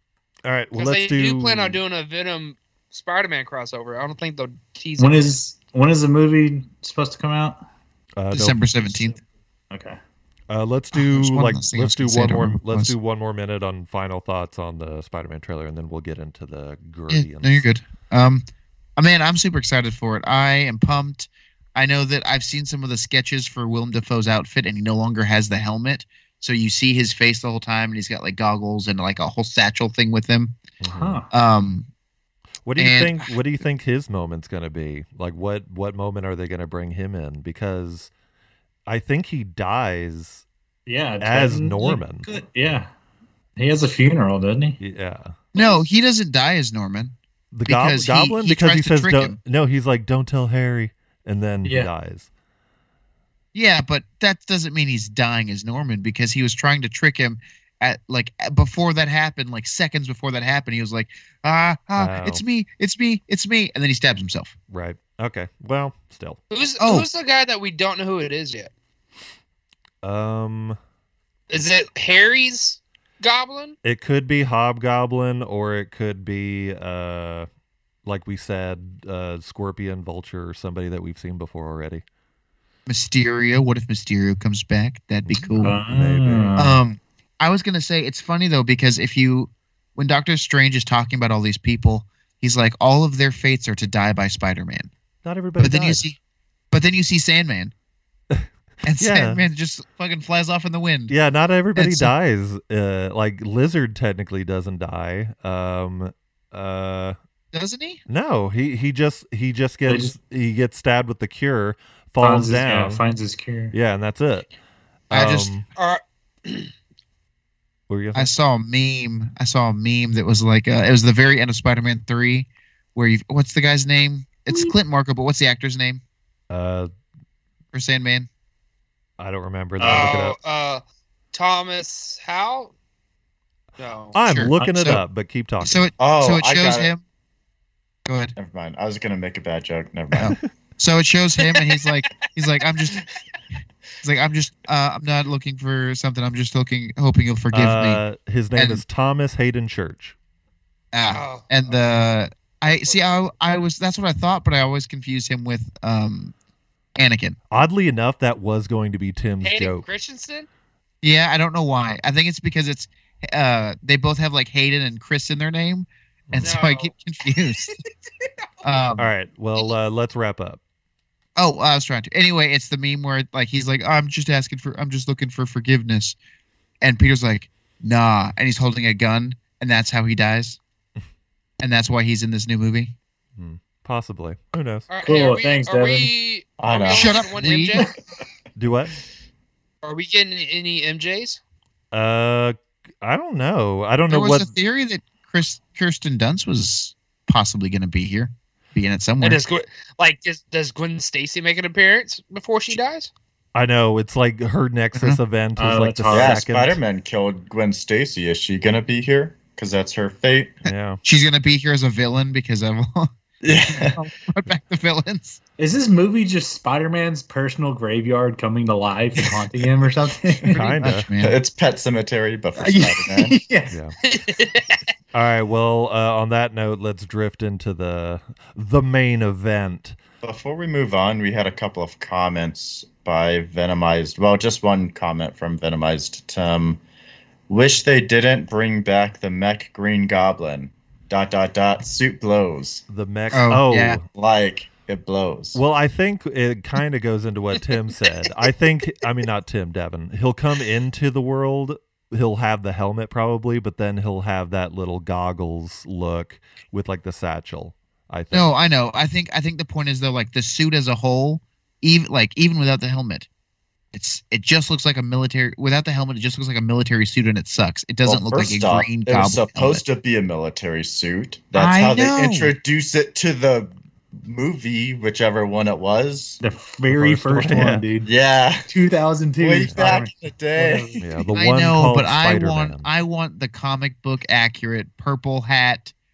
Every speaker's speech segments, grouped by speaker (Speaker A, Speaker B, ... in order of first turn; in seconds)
Speaker A: 0.4-1.8, 8.2-8.7, 10.5-17.6, 30.8-31.2, 32.6-38.1, 38.9-40.5, 41.2-42.3, 44.8-45.3, 47.5-52.3, 62.0-62.4, 64.7-66.4, 70.0-70.8, 73.8-77.5, 78.0-82.0, 85.2-86.8, 95.2-96.1, 99.0-99.4, 101.1-107.2, 108.1-113.0, 113.7-114.5, 115.1-115.7, 117.9-118.3, 126.5-126.9, 129.2-130.4, 134.1-135.9, 147.5-150.2, 157.5-159.8, 166.3-166.6, 169.0-170.6, 183.4-184.9, 188.6-188.9, 191.9-194.5, 203.6-206.8, 210.7-211.0, 220.5-221.1, 223.7-224.0, 225.1-230.0, 242.9-244.0, 245.6-258.5, 276.9-277.9, 281.0-282.9
Speaker B: 0.7-5.4, 45.6-45.8, 66.5-68.7, 71.5-73.8, 115.8-116.7, 129.8-132.7, 133.8-134.2, 141.5-141.9, 151.1-151.7, 152.7-153.0, 159.4-160.5, 166.4-166.9, 167.7-168.3, 184.9-187.9, 189.8-191.4, 199.2-203.1, 224.0-224.8
Speaker C: 5.0-7.6, 9.7-10.0, 30.9-31.3, 40.9-42.9, 43.6-44.8, 51.6-51.9, 85.6-86.8, 109.9-110.1, 112.2-113.7, 129.8-130.2, 134.6-135.0, 185.0-186.1, 205.6-206.4, 215.6-220.9, 222.6-223.8, 276.4-278.1, 278.7-281.2
Speaker D: 8.3-9.2, 10.9-12.9, 17.1-18.4, 19.0-30.6, 31.3-31.9, 32.8-33.4, 45.5-47.1, 47.7-49.4, 53.5-64.5, 66.8-67.1, 82.9-85.8, 86.6-94.9, 95.6-96.2, 96.7-97.7, 98.8-101.2, 101.8-102.1, 107.5-108.0, 115.1-115.5, 118.1-126.0, 127.7-128.3, 134.2-135.0, 135.6-137.0, 138.1-138.3, 140.2-143.0, 144.0-148.0, 148.6-148.8, 150.9-156.3, 157.0-157.4, 161.0-167.8, 168.6-169.1, 171.4-176.2, 176.8-180.6, 181.6-182.9, 186.9-187.8, 194.1-199.4, 204.9-205.2, 211.0-213.1, 213.7-215.4, 220.8-221.4, 243.3-244.0, 258.3-263.3, 263.9-269.8, 271.6-272.5, 281.3-285.9
Speaker E: 136.0-136.9, 138.4-140.4, 186.6-187.2, 206.1-210.6, 213.4-214.0, 221.2-223.4, 230.2-236.8, 237.5-242.8, 244.2-245.6, 268.1-276.4, 278.0-278.7, 279.4-281.0